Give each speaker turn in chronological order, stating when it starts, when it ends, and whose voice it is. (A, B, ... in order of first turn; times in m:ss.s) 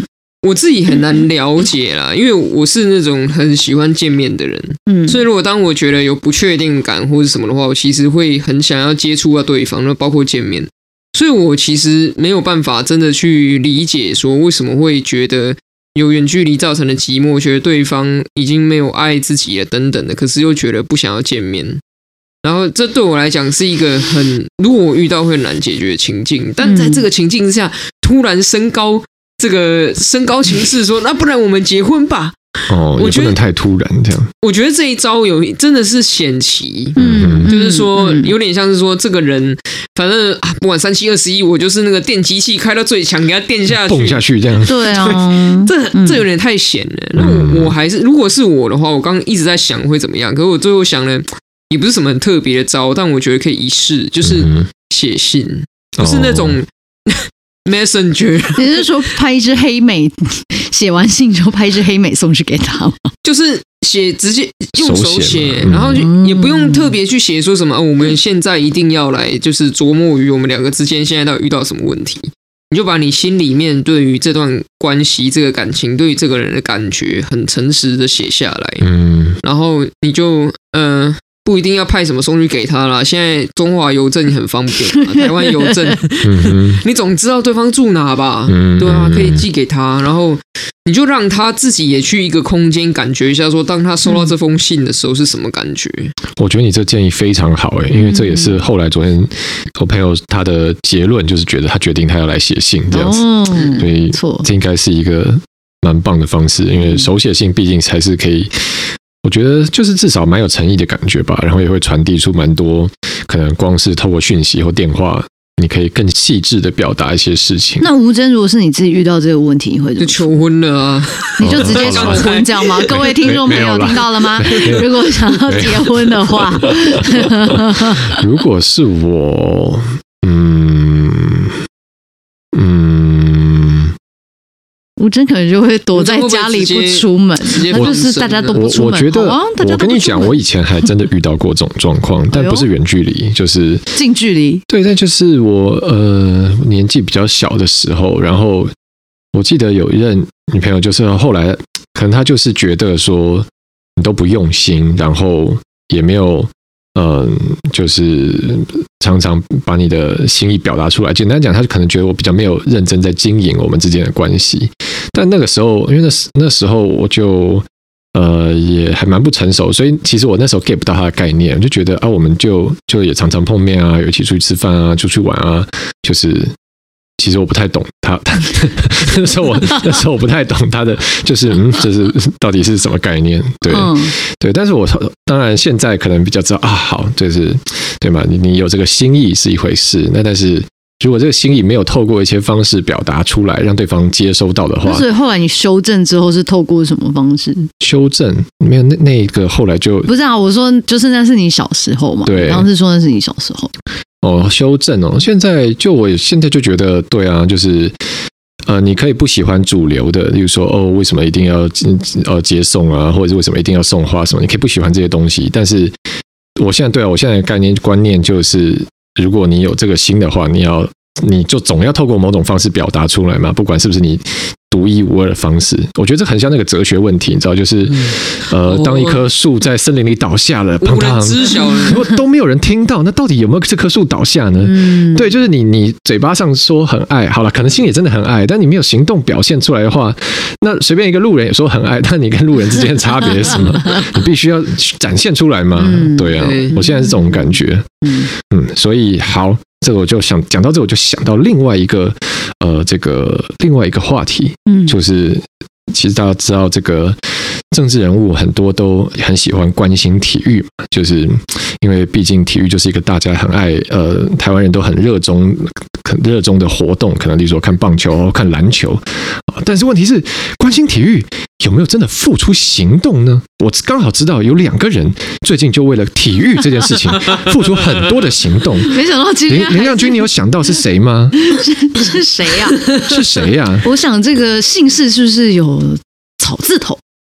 0:00.4-0:21.8 A
0:04.9-0:05.2 B
0:22.4-0:32.4 A
0:26.6-0:27.0 B
0:32.7-0:34.3 C
0:33.0-0:33.4 A
0:34.4-0:44.2 A
0:37.0-0:38.3 B
0:37.0-0:37.5 C
0:43.7-0:44.9 C
0:44.6-0:46.2 B
0:44.8-0:58.9 A
0:47.2-0:47.7 C
0:54.2-0:54.7 C
0:56.0-0:56.6 C
0:58.6-1:03.1 B
1:03.2-1:18.9 A
1:04.8-1:06.1 C
1:06.0-1:06.9 B
1:18.8-1:19.4 C
1:19.4-1:36.1 A
1:25.1-1:25.7 B
1:26.2-1:26.8 C
1:28.5-1:29.4 C
1:36.4-1:57.8 C
1:38.0-1:38.6 B
1:42.9-1:44.4 B
1:57.8-2:00.3 B
2:00.0-2:03.1 A
2:01.4-2:08.2 B
2:01.4-2:02.3 C
2:02.9-2:11.6 C
2:12.5-2:13.9 C
2:15.0-2:20.4 B
2:15.9-2:18.6 A
2:18.5-2:23.8 C
2:22.3-2:22.7 B
2:23.9-2:24.6 B
2:24.7-2:28.7 C
2:29.3-2:56.5 C
2:57.2-3:15.0 C
3:03.7-3:04.1 B
3:14.8-3:17.7 B
3:17.8-3:20.1 C
3:20.0-3:23.7 B
3:22.2-3:22.7 C
3:24.2-3:28.0 C
3:28.6-3:35.9 C
3:36.6-4:17.2 C
3:48.6-3:49.2 A
3:50.8-3:52.1 A
3:54.6-3:55.3 B
4:05.8-4:08.3 B
4:06.3-4:06.8 A
4:14.6-4:15.0 B
4:17.7-4:41.5 C
4:38.8-4:40.3 B
4:41.3-4:43.1 B
4:43.0-4:43.8 C
4:43.8-4:47.0 B